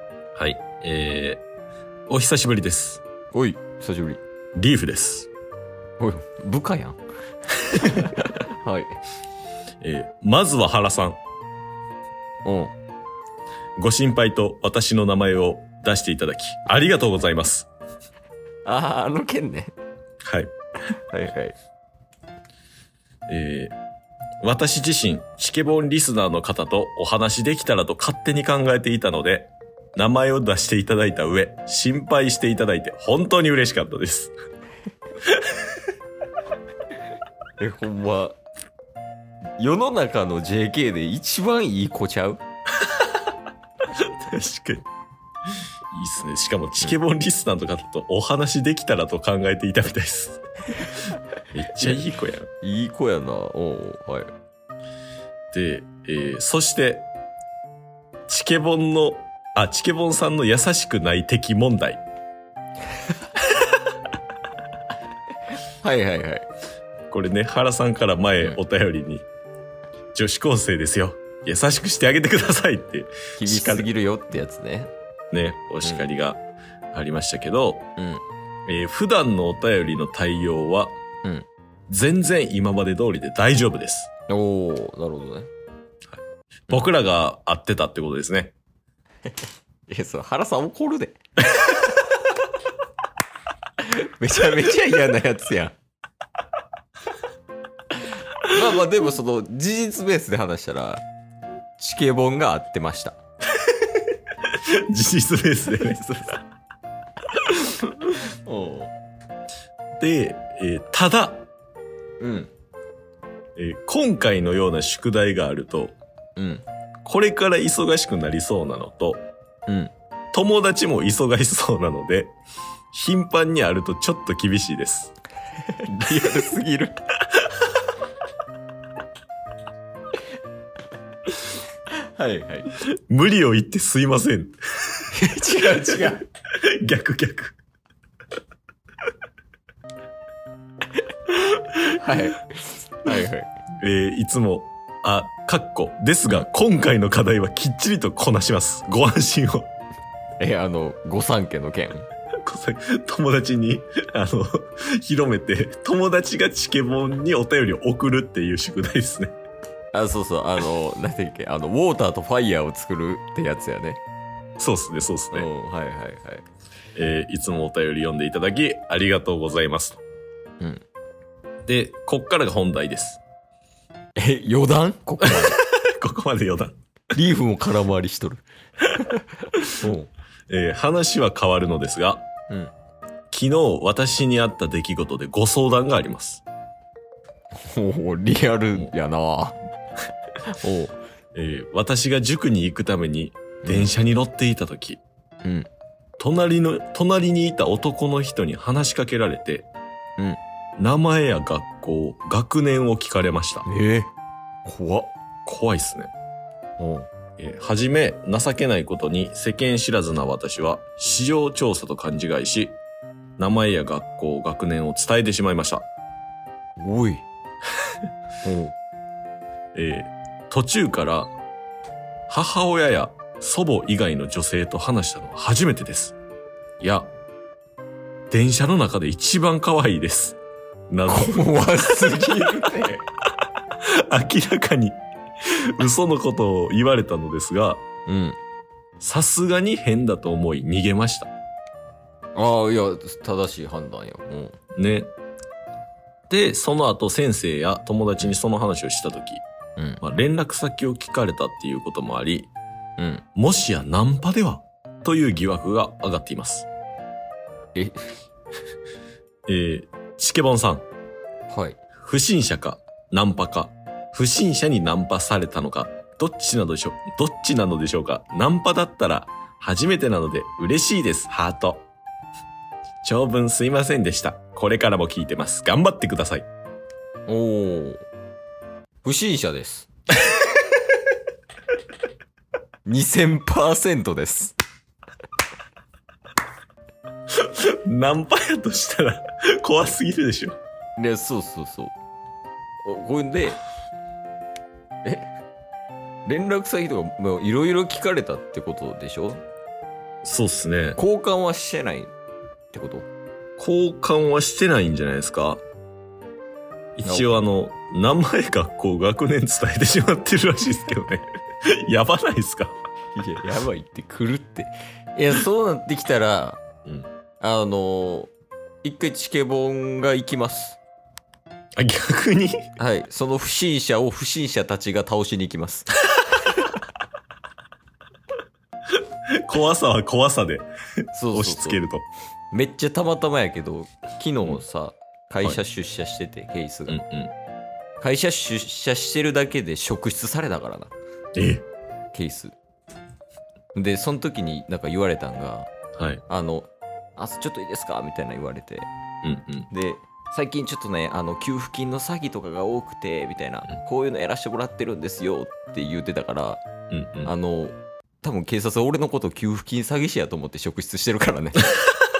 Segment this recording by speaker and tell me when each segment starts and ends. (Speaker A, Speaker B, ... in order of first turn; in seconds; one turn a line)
Speaker A: 0.4-1.4
Speaker A: 2.1-3.0
Speaker B: 3.3-4.2
Speaker A: 4.5-5.3
Speaker B: 6.0-7.0
Speaker B: 7.6-9.0
Speaker A: 9.8-11.2
Speaker B: 12.4-12.7
Speaker A: 13.8-17.7
Speaker B: 18.6-19.7
Speaker A: 20.2-20.5
Speaker B: 21.1-21.6
Speaker A: 23.3-23.8
Speaker A: 24.4-34.3
Speaker A: 35.3-35.6
Speaker B: 37.6-38.4
Speaker B: 39.6-42.4
Speaker A: 43.9-44.9
Speaker A: 45.9-50.4
Speaker A: 51.5-52.5
Speaker B: 52.6-54.3
Speaker A: 55.5-57.1
Speaker A: 58.3-62.0
Speaker B: 65.8-66.5
Speaker A: 67.1-69.3
Speaker A: 70.2-73.9
Speaker B: 73.4-74.9
Speaker A: 75.3-76.4
Speaker A: 76.9-77.9
Speaker B: 78.0-78.2
Speaker A: 78.7-81.0
Speaker A: 81.9-84.1
Speaker B: 84.3-85.5
Speaker A: 86.1-88.5
Speaker B: 89.9-91.2
Speaker B: 93.8-95.8
Speaker B: 98.4-101.0
Speaker B: 101.8-103.2
Speaker A: 104.4-106.1
Speaker B: 105.7-106.4
Speaker B: 108.5-108.9
Speaker A: 110.0-111.5
Speaker B: 112.2-112.5
Speaker A: 113.6-116.0
Speaker B: 116.4-116.7
Speaker A: 117.0-119.3
Speaker B: 119.7-119.9
Speaker A: 120.3-122.4
Speaker A: 122.9-125.1
Speaker B: 125.8-127.0
Speaker B: 132.1-132.7
Speaker A: 133.1-135.1
Speaker B: 135.1-136.2
Speaker A: 135.9-137.6
Speaker B: 141.9-143.5
Speaker A: 143.8-149.7
Speaker B: 150.4-152.1
Speaker A: 152.4-159.3
Speaker B: 159.9-164.0
Speaker A: 164.6-165.5
Speaker B: 165.3-166.5
Speaker A: 167.0-170.0
Speaker A: 171.7-173.2
Speaker B: 174.2-175.6
Speaker A: 175.2-176.8
Speaker B: 177.2-178.4
Speaker A: 179.6-179.9
Speaker B: 179.8-180.1
Speaker A: 180.5-182.3
Speaker A: 183.3-186.4
Speaker B: 187.7-189.6
Speaker B: 190.5-191.0
Speaker A: 191.3-195.0
Speaker B: 193.6-193.9
Speaker B: 195.4-195.7
Speaker A: 196.2-199.7
Speaker A: 200.8-203.7
Speaker B: 203.6-204.1
Speaker B: 204.7-205.1
Speaker A: 205.5-206.1
Speaker B: 206.8-207.1
Speaker A: 207.4-212.8
Speaker A: 213.4-215.9
Speaker B: 216.8-217.2
Speaker B: 218.4-218.7
Speaker A: 219.8-221.3
Speaker A: 222.3-226.2
Speaker A: 226.8-227.1
Speaker A: 228.3-230.4
Speaker A: 230.9-232.4
Speaker B: 231.1-233.1
Speaker A: 233.8-237.8
Speaker B: 238.1-238.4
Speaker A: 239.0-241.3
Speaker B: 242.4-244.6
Speaker A: 244.8-245.1
Speaker A: 246.3-249.4
Speaker B: 249.8-250.0
Speaker A: 250.0-252.5
Speaker B: 253.0-253.2
Speaker A: 253.3-256.7
Speaker B: 257.8-258.1
Speaker A: 259.5-260.9
Speaker B: 261.5-261.8
Speaker A: 262.0-271.9
Speaker A: 273.0-276.5
Speaker B: 277.3-278.0
Speaker B: 279.0-279.9
Speaker B: 282.9-284.6
Speaker A: 287.4-290.6
Speaker B: 291.0-291.9
Speaker B: 292.8-293.6
Speaker B: 295.0-295.3
Speaker B: 296.2-299.4
Speaker A: 300.2-301.0
Speaker B: 301.0-302.1
Speaker B: 302.7-303.1
Speaker A: 303.6-305.6
Speaker A: 307.0-312.7
Speaker B: 307.0-307.4
Speaker B: 313.1-316.6
Speaker B: 317.4-318.3
Speaker B: 318.8-320.8
Speaker A: 321.8-322.7
Speaker B: 322.8-325.9
Speaker A: 329.4-330.7
Speaker B: 331.1-331.8
Speaker A: 331.3-332.1
Speaker B: 332.5-337.0
Speaker A: 336.9-337.3
Speaker B: 338.0-340.9
Speaker A: 341.4-341.7
Speaker B: 342.1-342.6
Speaker B: 343.7-345.7
Speaker A: 346.0-346.2
Speaker B: 346.3-348.9
Speaker A: 349.2-349.7
Speaker B: 349.7-356.6
Speaker A: 356.9-357.3
Speaker B: 357.2-361.7